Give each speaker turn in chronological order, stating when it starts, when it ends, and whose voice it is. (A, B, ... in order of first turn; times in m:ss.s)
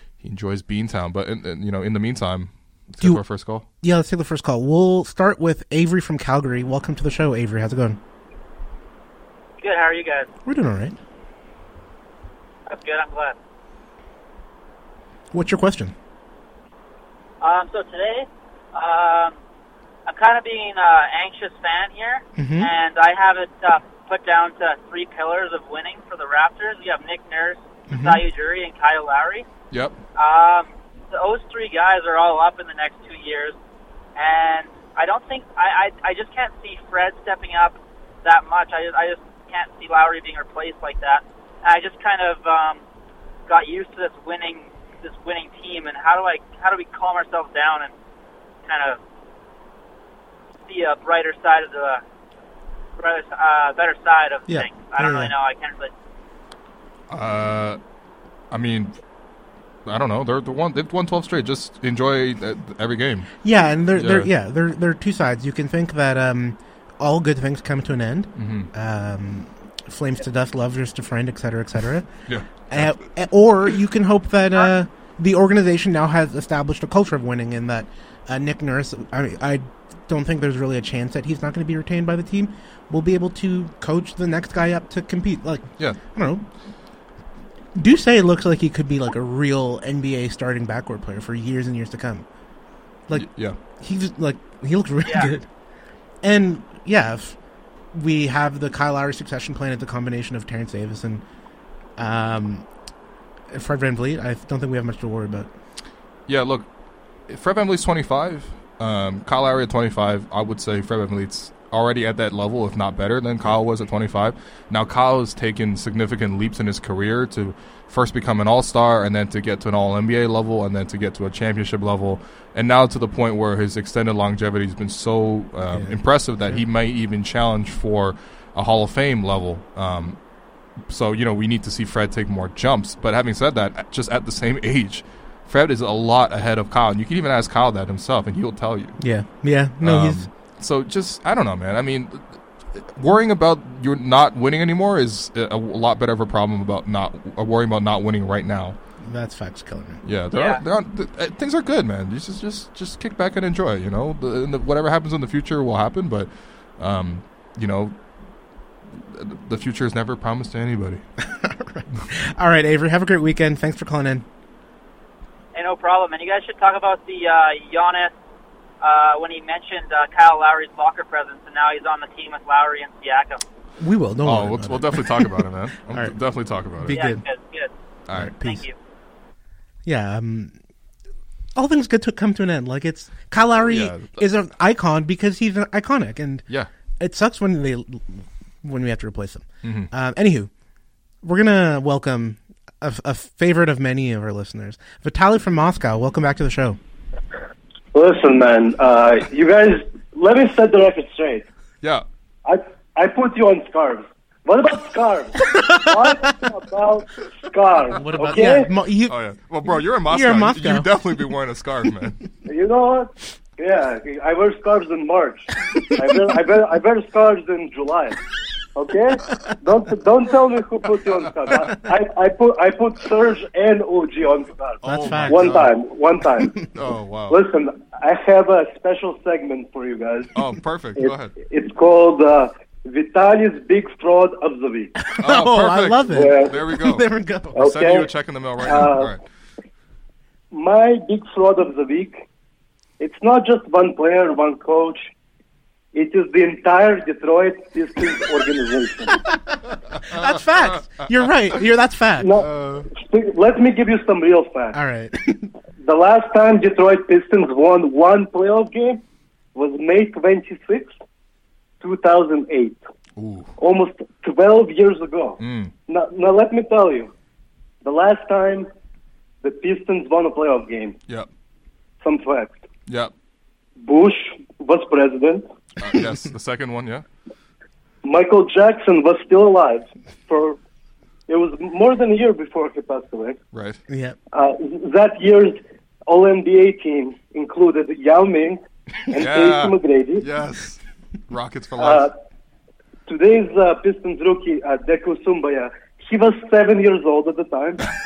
0:00.2-0:03.6 A
0:03.8-0:08.0 B
0:09.6-0:10.3 C
0:10.4-0:11.0 B
0:12.7-0:13.4 C
0:15.3-0:15.9 B
0:17.4-0:19.4 C
0:20.1-0:29.4 C
0:22.4-0:22.7 B
0:27.9-0:28.2 B
0:29.7-0:30.0 A
0:30.1-0:33.6 C
0:34.2-0:42.8 C
0:43.5-0:47.9 C
0:48.7-0:49.0 C
0:50.6-0:52.0 C
0:53.0-0:55.9 C
0:54.5-0:55.3 B
0:57.1-0:57.8 A
0:58.5-0:58.9 A
0:59.8-1:03.3 A
1:03.4-1:12.1 B
1:03.9-1:04.3 A
1:08.4-1:08.7 A
1:12.3-1:12.9 A
1:12.7-1:26.4 B
1:27.7-1:32.2 B
1:33.1-1:35.4 B
1:33.1-1:33.6 A
1:35.0-1:35.3 C
1:36.2-1:37.4 B
1:37.9-1:41.2 B
1:42.0-1:42.6 B
1:43.5-1:45.5 B
1:46.3-1:46.7 A
1:47.3-2:10.2 A
2:05.7-2:06.6 B
2:10.9-2:19.0 A
2:19.0-2:20.3 B
2:19.8-2:28.8 A
2:29.0-2:30.0 B
2:30.0-2:38.0 A
2:38.9-2:41.0 A
2:41.2-2:44.2 B
2:45.5-2:48.1 C
2:48.8-2:53.4 C
2:53.8-2:56.1 B
2:54.2-2:57.0 A
2:56.8-2:57.2 B
2:56.9-2:57.7 C
2:58.1-2:58.7 B
2:58.4-2:58.7 C
2:59.8-3:00.5 B
3:01.5-3:06.5 B
3:03.6-3:04.2 A
3:07.0-3:10.5 B
3:09.6-3:09.9 A
3:11.2-3:16.8 B
3:17.9-3:21.4 D
3:22.4-3:28.7 D
3:25.5-3:26.2 B
3:28.0-3:29.1 B
3:29.1-3:32.2 A
3:30.1-3:30.9 B
3:32.5-3:38.2 D
3:38.7-3:46.6 D
3:44.8-3:45.7 B
3:44.8-3:45.7 A
3:46.7-3:47.4 A
3:47.3-3:50.3 D
3:50.3-3:51.3 A
3:51.0-3:54.9 D
3:55.0-3:57.6 B
3:55.2-3:59.2 A
3:56.1-3:56.6 D
3:57.6-3:58.0 D
3:58.6-3:59.1 D
4:00.5-4:02.2 D
4:03.0-4:05.1 D
4:05.9-4:09.1 D
4:10.0-4:12.4 B
4:10.1-4:10.4 A
4:12.2-4:14.8 D
4:12.5-4:12.9 A
4:14.7-4:15.5 B
4:15.8-4:19.0 D
4:19.5-4:20.9 D
4:21.8-4:22.8 D
4:23.2-4:23.5 A
4:23.6-4:27.1 D
4:25.4-4:25.7 A
4:27.8-4:28.7 D
4:29.4-4:31.0 D
4:32.0-4:32.6 D
4:32.9-4:33.1 A
4:33.8-4:35.4 D
4:35.8-4:37.0 A
4:38.0-4:40.6 D
4:41.3-4:43.4 D
4:43.5-4:43.8 A
4:43.9-4:44.2 B
4:44.3-4:45.6 D
4:46.1-4:48.6 D
4:49.1-4:50.2 D
4:49.1-4:52.1 A
4:51.8-4:52.1 D
4:53.1-4:57.8 D